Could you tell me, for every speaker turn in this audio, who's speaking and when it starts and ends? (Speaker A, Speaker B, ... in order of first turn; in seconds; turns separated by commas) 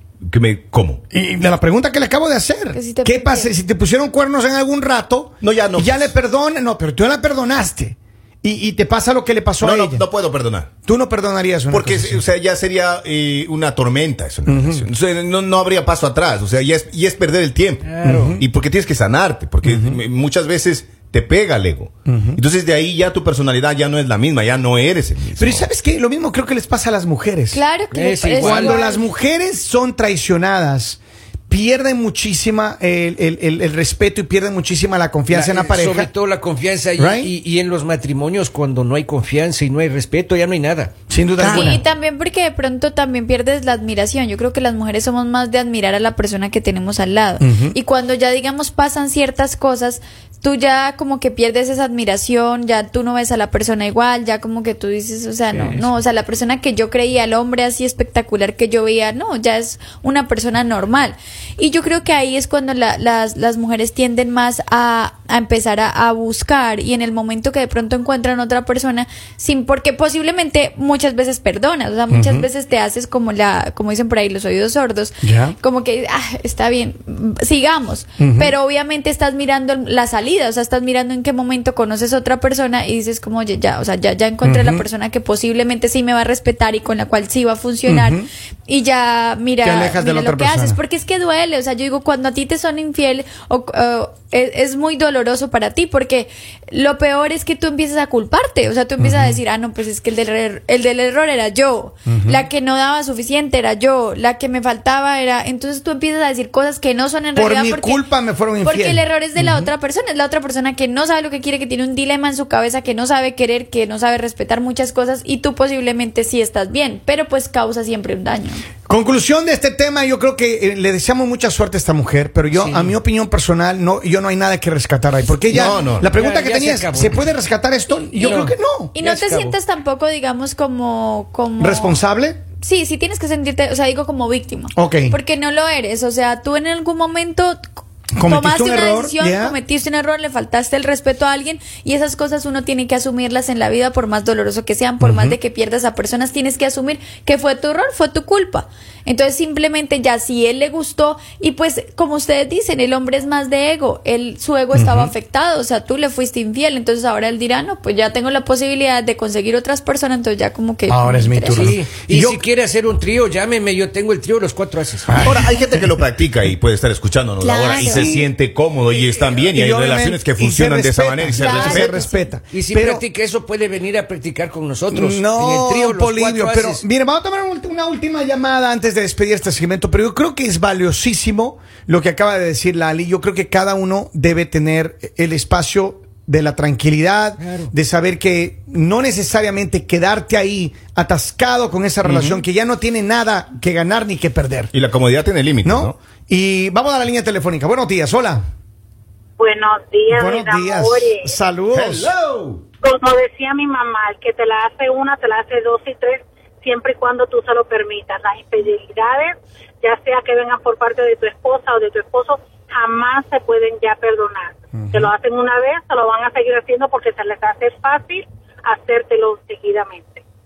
Speaker A: 0.3-1.0, Speaker B: 1.1-10.1, Speaker C: 2.7-3.5, Speaker A: 5.4-6.1, Speaker A: 9.6-10.7, Speaker B: 10.8-12.2, Speaker A: 11.7-25.7, Speaker B: 14.5-14.8, Speaker D: 17.8-18.4, Speaker B: 18.0-18.4, Speaker B: 19.6-20.0, Speaker B: 22.1-22.4, Speaker B: 25.4-27.6, Speaker C: 27.5-29.1, Speaker D: 27.9-28.9, Speaker B: 28.4-36.1, Speaker D: 35.3-40.9, Speaker B: 37.0-37.3, Speaker B: 41.1-41.8, Speaker A: 41.4-41.8, Speaker C: 41.4-108.0, Speaker B: 47.4-47.8, Speaker B: 72.1-72.5, Speaker B: 75.2-75.6, Speaker B: 78.2-78.5, Speaker B: 84.4-84.8, Speaker B: 87.9-88.3, Speaker B: 89.6-90.8, Speaker B: 99.0-99.4, Speaker B: 102.1-102.5, Speaker B: 107.3-109.7, Speaker C: 108.6-118.6, Speaker B: 118.9-128.9, Speaker D: 122.5-123.0, Speaker A: 125.5-126.1, Speaker D: 125.6-127.2, Speaker D: 128.2-129.6, Speaker C: 128.2-132.0, Speaker B: 131.6-132.4, Speaker C: 132.6-137.7, Speaker B: 134.7-135.2, Speaker B: 138.2-139.6, Speaker C: 138.3-161.8, Speaker B: 145.0-145.4, Speaker B: 154.7-155.1, Speaker B: 160.9-162.4, Speaker D: 161.5-165.3, Speaker B: 165.1-165.7, Speaker A: 165.2-172.0, Speaker C: 167.4-168.1, Speaker B: 167.7-168.3, Speaker B: 168.9-173.0, Speaker C: 171.4-172.3, Speaker D: 172.5-176.8, Speaker B: 174.9-194.7, Speaker D: 187.4-187.7, Speaker D: 192.0-192.4, Speaker A: 194.7-196.0, Speaker B: 195.6-198.4, Speaker E: 199.4-201.2, Speaker B: 200.1-202.1, Speaker A: 201.7-202.6, Speaker E: 202.8-220.2, Speaker B: 214.8-215.1